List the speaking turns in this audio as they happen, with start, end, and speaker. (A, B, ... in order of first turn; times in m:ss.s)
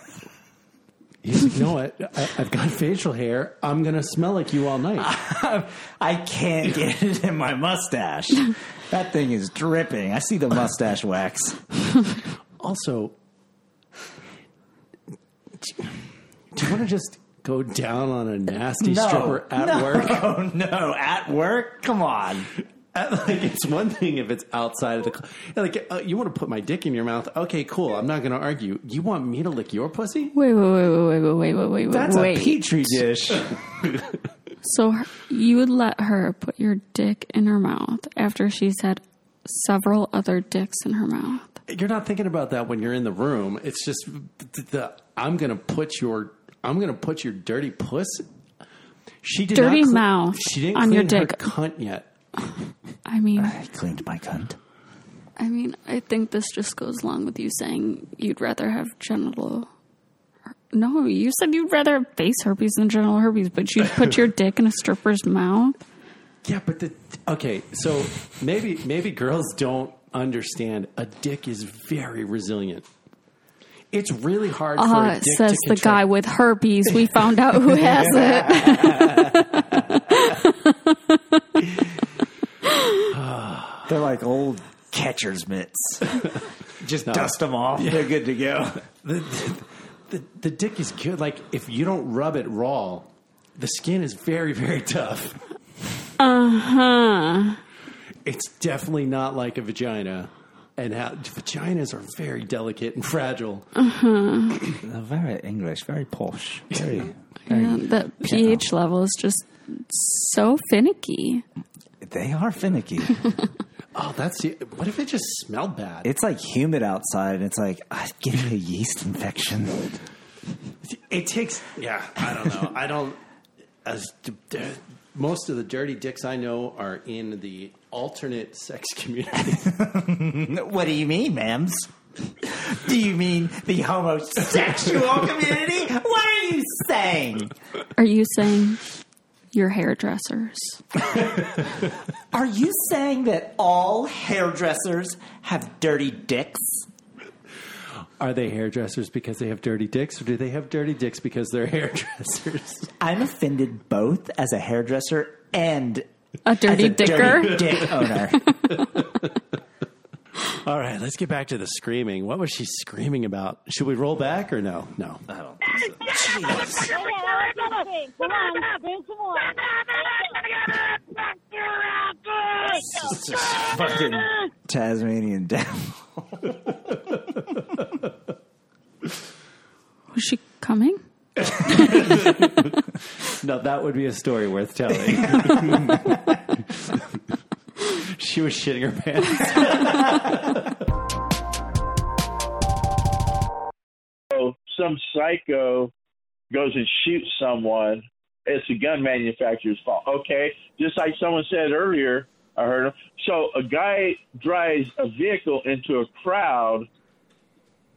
0:01.2-0:05.1 A
0:05.0-0:11.6 B
0:12.6-0:13.1 A
0:15.6-0:16.0 A
0:16.5-0:20.3 A
0:18.8-0:22.5 B
0:22.9-0:30.3 A
0:30.3-0:32.6 C
0:31.9-0:33.6 B
0:31.9-0:32.2 A
0:33.3-0:34.2 A
0:34.6-0:41.6 C
0:41.7-0:48.3 A
0:49.2-0:52.1 A
0:49.5-0:51.5 C
0:53.0-0:53.6 C
0:53.4-0:54.6 B
0:55.4-0:59.7 C
1:00.7-1:05.8 C
1:03.8-1:04.1 A
1:06.4-1:12.9 A
1:13.9-1:16.0 A
1:14.8-1:21.4 C
1:16.9-1:19.2 A
1:23.1-1:23.9 A
1:23.9-1:26.1 B
1:26.2-1:26.4 A
1:26.8-1:28.9 B
1:27.0-1:28.1 A
1:29.0-1:35.4 A
1:36.2-1:37.6 C
1:38.2-1:43.7 A
1:43.8-1:44.6 C
1:44.8-1:48.6 B
1:47.5-1:51.4 C
1:52.0-1:53.2 B
1:53.9-1:56.1 A
1:56.0-2:00.0 B
2:00.8-2:03.2 A
2:03.8-2:09.6 A
2:09.5-2:11.9 B
2:12.4-2:17.5 B
2:18.0-2:18.8 C
2:19.5-2:20.8 C
2:22.3-2:26.9 B
2:28.2-2:32.9 A
2:33.0-2:36.1 B
2:36.4-2:38.1 C
2:36.6-2:38.4 B
2:36.9-2:38.1 A
2:38.7-2:39.3 A
2:40.5-2:45.2 A
2:45.3-2:47.0 B
2:46.8-2:50.3 D
2:51.5-2:54.4 D
2:52.6-2:56.7 B
3:00.1-3:01.0 C
3:01.4-3:02.7 A
3:01.6-3:02.3 C
3:03.3-3:06.0 A
3:05.2-3:06.1 B
3:06.7-3:07.2 A
3:07.9-3:10.8 A
3:14.3-3:15.9 E
3:16.5-3:26.9 E